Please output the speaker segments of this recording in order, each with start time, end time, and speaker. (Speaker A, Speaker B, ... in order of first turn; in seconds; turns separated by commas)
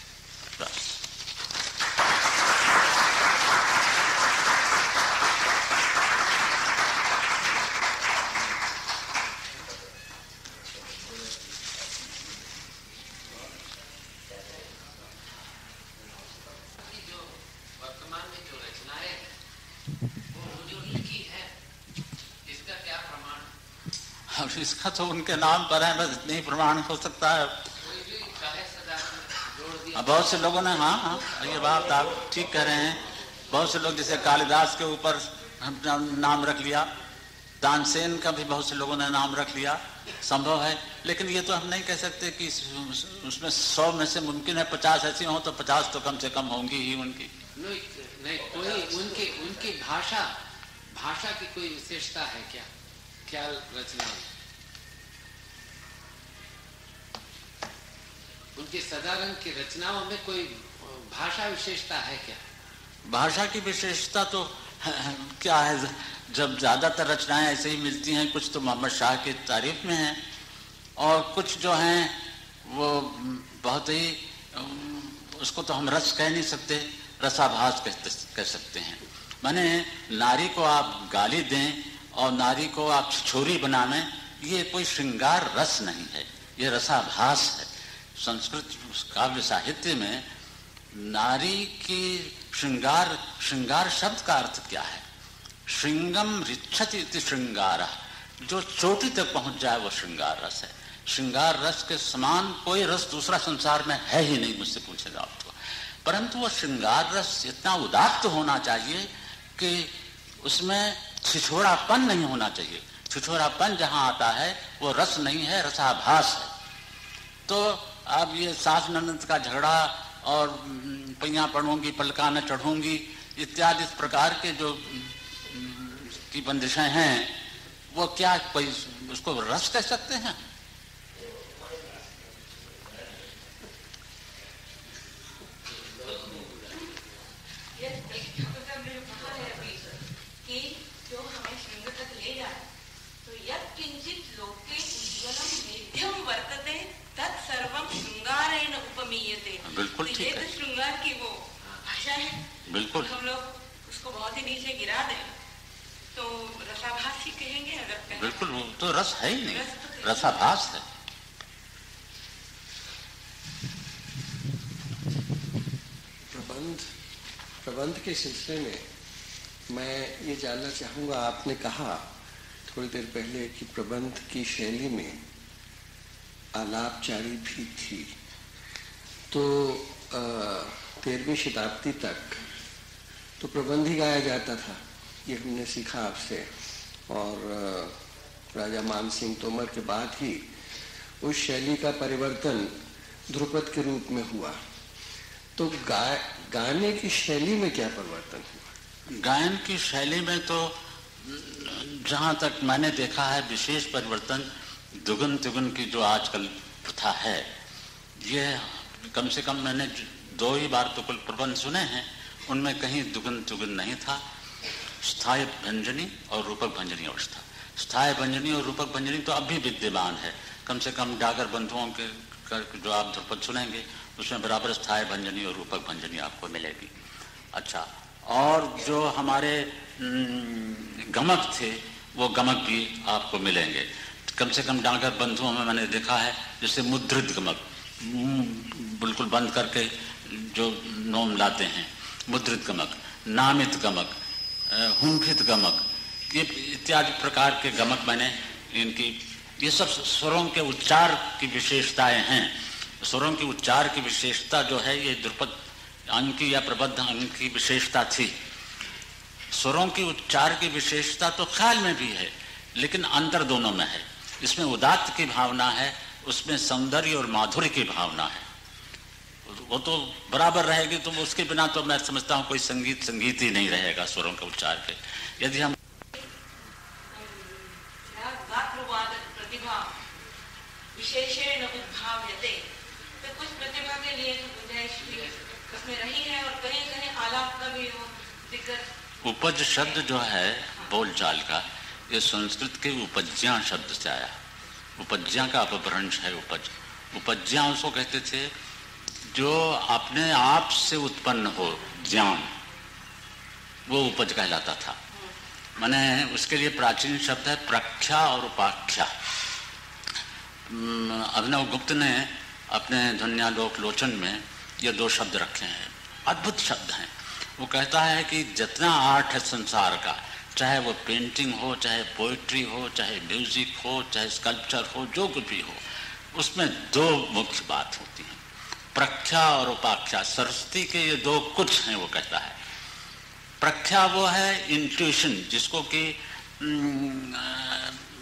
Speaker A: 0.6-1.0, Speaker B: 16.8-19.3, Speaker B: 20.3-21.5, Speaker B: 22.4-23.5, Speaker A: 24.3-27.6, Speaker B: 27.8-30.5, Speaker A: 29.9-36.9, Speaker A: 37.6-47.3, Speaker B: 47.5-50.3, Speaker B: 50.9-52.7, Speaker B: 53.3-54.3, Speaker B: 58.5-62.4, Speaker A: 63.0-70.2, Speaker A: 71.0-90.2, Speaker A: 90.9-95.0, Speaker A: 95.7-116.5, Speaker A: 117.5-127.4, Speaker A: 127.9-130.4, Speaker B: 135.8-136.6, Speaker C: 137.8-142.6, Speaker C: 143.2-152.4, Speaker A: 149.6-150.5, Speaker A: 152.7-153.1, Speaker C: 152.9-155.3, Speaker C: 156.1-158.3, Speaker A: 158.1-160.8, Speaker C: 159.5-160.4, Speaker D: 166.3-166.8, Speaker D: 167.6-168.8, Speaker D: 169.7-172.0, Speaker D: 172.7-175.2, Speaker D: 176.5-178.1, Speaker D: 179.3-182.4, Speaker D: 183.4-186.5, Speaker D: 187.1-187.9, Speaker D: 188.5-190.4, Speaker D: 191.2-192.7, Speaker D: 193.3-194.5, Speaker D: 195.6-198.7, Speaker A: 199.1-207.5, Speaker A: 208.2-214.2, Speaker A: 215.0-226.9, Speaker A: 227.5-244.1, Speaker A: 244.7-255.6, Speaker A: 256.1-258.4, Speaker A: 259.5-268.5, Speaker A: 269.4-275.8, Speaker C: 277.1-280.0, Speaker C: 280.9-288.9, Speaker A: 289.2-294.4, Speaker A: 295.0-298.5, Speaker A: 299.3-302.5, Speaker A: 303.9-305.0, Speaker A: 305.8-309.1, Speaker A: 310.6-328.4, Speaker A: 328.9-332.6, Speaker A: 333.6-338.0